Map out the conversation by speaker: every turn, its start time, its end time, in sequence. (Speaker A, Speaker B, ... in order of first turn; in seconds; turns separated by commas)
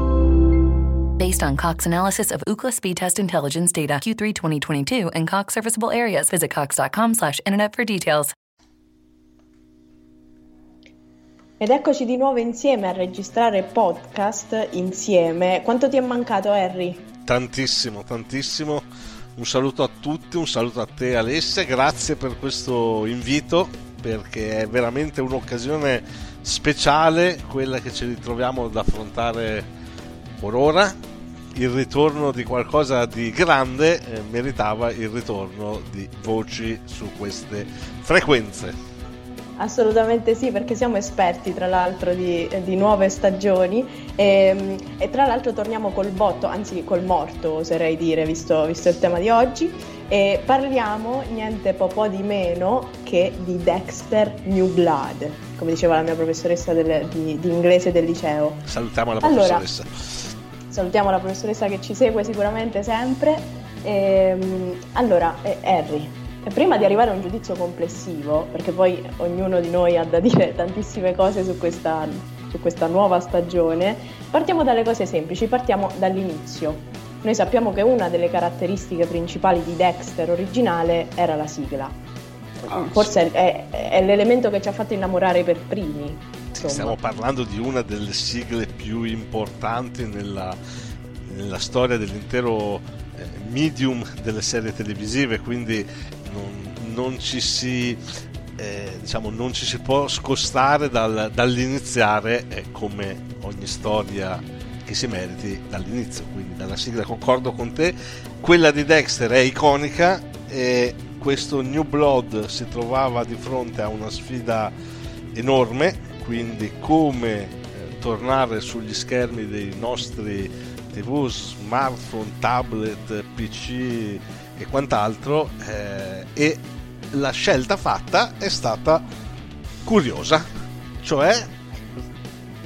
Speaker A: 1.2-8.3, Speaker B: 11.6-17.1, Speaker C: 17.3-18.8, Speaker C: 19.4-29.7, Speaker C: 30.4-30.9, Speaker C: 31.6-38.7, Speaker B: 39.6-58.7, Speaker C: 58.7-60.3, Speaker B: 59.2-59.7, Speaker B: 60.7-82.0, Speaker B: 82.6-87.0, Speaker C: 82.6-83.1, Speaker C: 86.5-90.6, Speaker C: 91.2-98.0, Speaker C: 98.6-114.7, Speaker C: 115.3-129.1, Speaker C: 129.8-130.4, Speaker C: 131.0-131.5